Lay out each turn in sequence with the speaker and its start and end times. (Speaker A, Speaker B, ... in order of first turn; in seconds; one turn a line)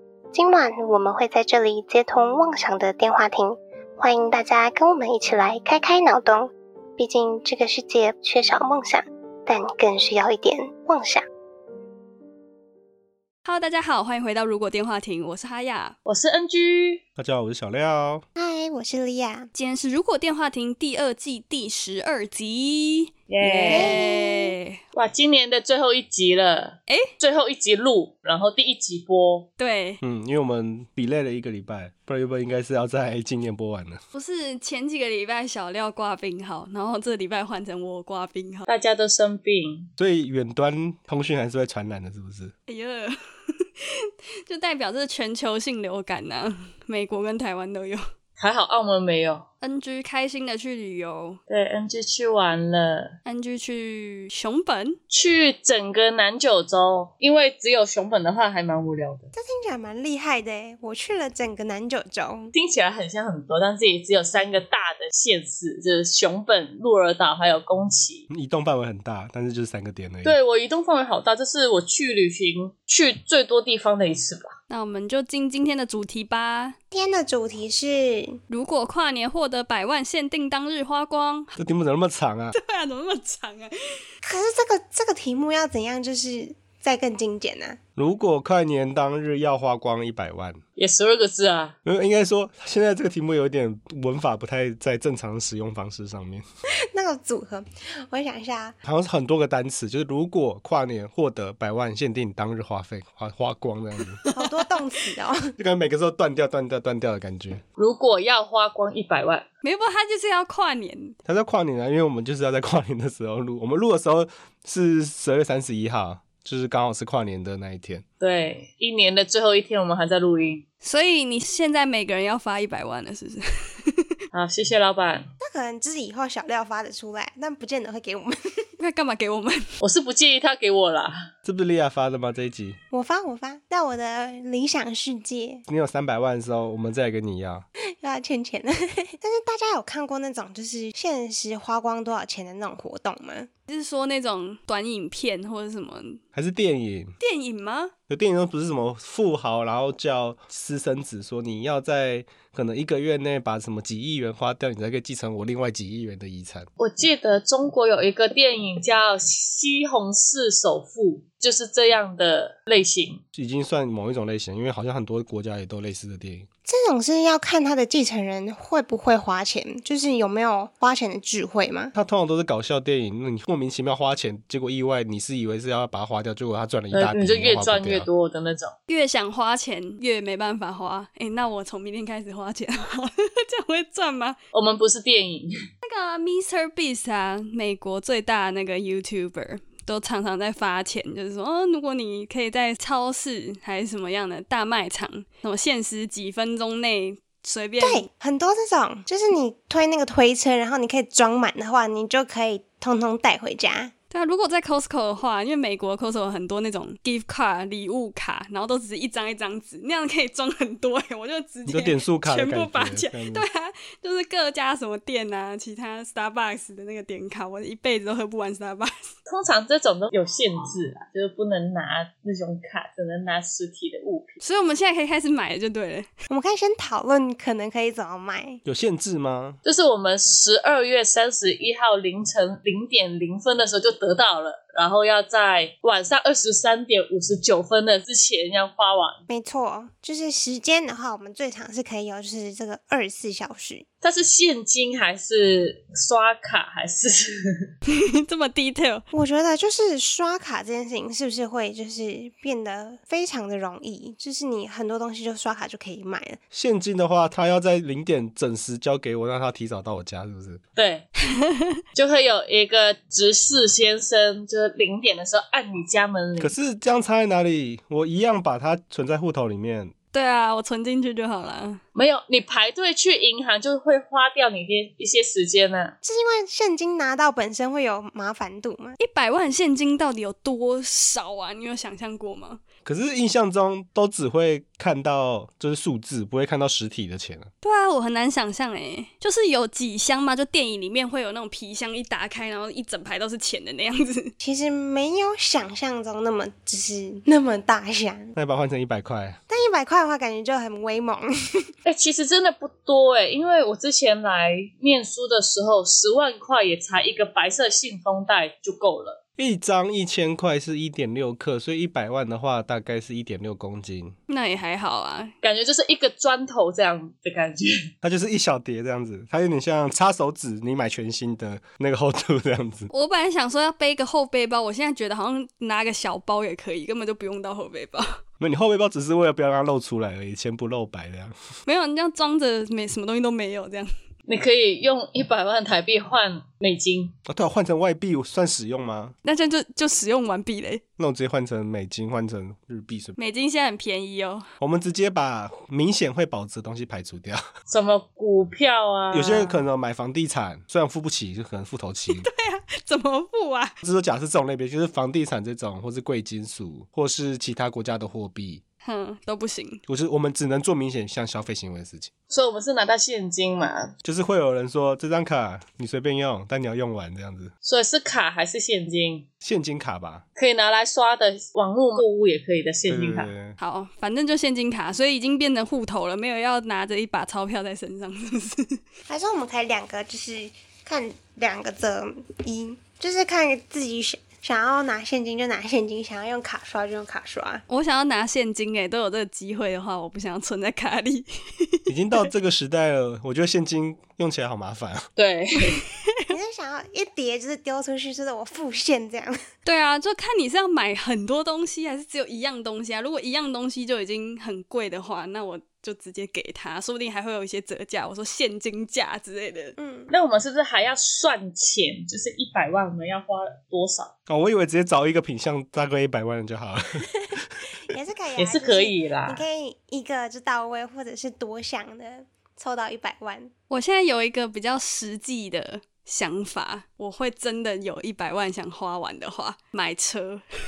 Speaker A: 0.3-11.2
Speaker B: 13.4-16.0
Speaker C: 16.1-17.0
Speaker D: 17.2-18.2
Speaker E: 18.4-19.5
Speaker B: 19.6-24.8
Speaker C: 23.3-24.0
Speaker E: 23.7-24.5
Speaker C: 24.9-29.5
Speaker B: 29.6-30.0
Speaker D: 30.0-34.0
Speaker B: 34.1-38.7
Speaker C: 38.7-39.9
Speaker D: 40.0-42.5
Speaker B: 42.7-43.5
Speaker B: 44.5-48.0
Speaker C: 48.4-49.4
Speaker B: 49.6-51.4
Speaker C: 51.5-53.1
Speaker B: 53.2-55.0
Speaker C: 55.1-59.3
Speaker E: 59.3-62.5
Speaker C: 62.5-68.2
Speaker D: 68.3-70.4
Speaker C: 70.2-74.5
Speaker B: 74.7-76.8
Speaker E: 76.9-78.4
Speaker B: 78.5-81.6
Speaker D: 81.6-82.5
Speaker B: 82.5-83.7
Speaker E: 84.2-87.8
Speaker D: 88.0-90.6
Speaker C: 90.8-91.7
Speaker D: 91.8-96.4
Speaker E: 96.9-98.8
Speaker D: 98.8-104.2
Speaker E: 104.3-105.5
Speaker D: 105.6-107.6
Speaker C: 107.8-109.4
Speaker B: 109.6-111.2
Speaker D: 111.2-118.0
Speaker C: 118.2-120.7
Speaker B: 120.8-124.1
Speaker C: 124.3-125.3
Speaker E: 125.4-128.3
Speaker B: 128.8-129.7
Speaker C: 129.8-131.1
Speaker D: 131.4-132.8
Speaker E: 132.9-135.6
Speaker D: 135.7-137.7
Speaker E: 138.0-143.5
Speaker B: 143.7-146.2
Speaker D: 146.3-147.1
Speaker B: 147.2-147.9
Speaker D: 148.1-156.7
Speaker C: 156.8-163.2
Speaker D: 163.3-166.5
Speaker E: 166.7-171.9
Speaker D: 171.9-178.1
Speaker C: 176.9-178.7
Speaker B: 178.9-184.3
Speaker C: 184.5-185.5
Speaker B: 185.8-198.0
Speaker E: 197.8-203.9
Speaker B: 204.1-219.1
Speaker D: 211.7-213.4
Speaker C: 219.3-224.4
Speaker B: 224.4-226.1
Speaker E: 226.3-228.6
Speaker D: 228.7-229.6
Speaker C: 229.6-239.2
Speaker E: 239.3-243.8
Speaker C: 244.0-247.3
Speaker B: 247.9-249.0
Speaker E: 249.1-256.4
Speaker D: 256.5-260.6
Speaker C: 260.8-261.1
Speaker C: 261.9-266.6
Speaker D: 266.4-269.9
Speaker B: 270.1-271.8
Speaker C: 271.9-275.9
Speaker E: 276.0-279.0
Speaker B: 279.0-282.6
Speaker D: 282.9-287.5
Speaker B: 287.6-294.3
Speaker E: 294.4-298.3
Speaker D: 298.4-299.4
Speaker E: 299.5-301.6
Speaker C: 301.9-309.2
Speaker D: 309.4-314.1
Speaker B: 314.3-315.3
Speaker C: 315.4-317.8
Speaker D: 318.0-322.9
Speaker B: 322.9-328.2
Speaker D: 328.4-331.4
Speaker B: 331.7-333.9
Speaker C: 334.3-337.1
Speaker D: 337.3-339.2
Speaker B: 339.2-340.8
Speaker D: 341.0-343.1
Speaker B: 343.2-344.5
Speaker D: 344.6-347.4
Speaker C: 347.7-349.5
Speaker D: 349.1-352.3
Speaker B: 352.1-353.8
Speaker D: 353.8-358.6
Speaker B: 358.8-359.8
Speaker D: 359.9-362.1
Speaker C: 362.3-363.9
Speaker D: 364.0-367.5
Speaker C: 367.6-369.3
Speaker D: 369.4-370.2
Speaker C: 370.4-373.3
Speaker D: 372.9-373.6
Speaker B: 373.6-378.8
Speaker E: 379.1-387.6
Speaker B: 387.7-391.8
Speaker D: 391.9-395.1
Speaker C: 395.2-395.8
Speaker E: 396.3-399.4
Speaker B: 399.6-409.8
Speaker E: 409.8-410.1
Speaker C: 410.1-414.1
Speaker D: 414.3-417.5
Speaker E: 417.9-423.5
Speaker C: 418.4-419.4
Speaker B: 423.7-430.4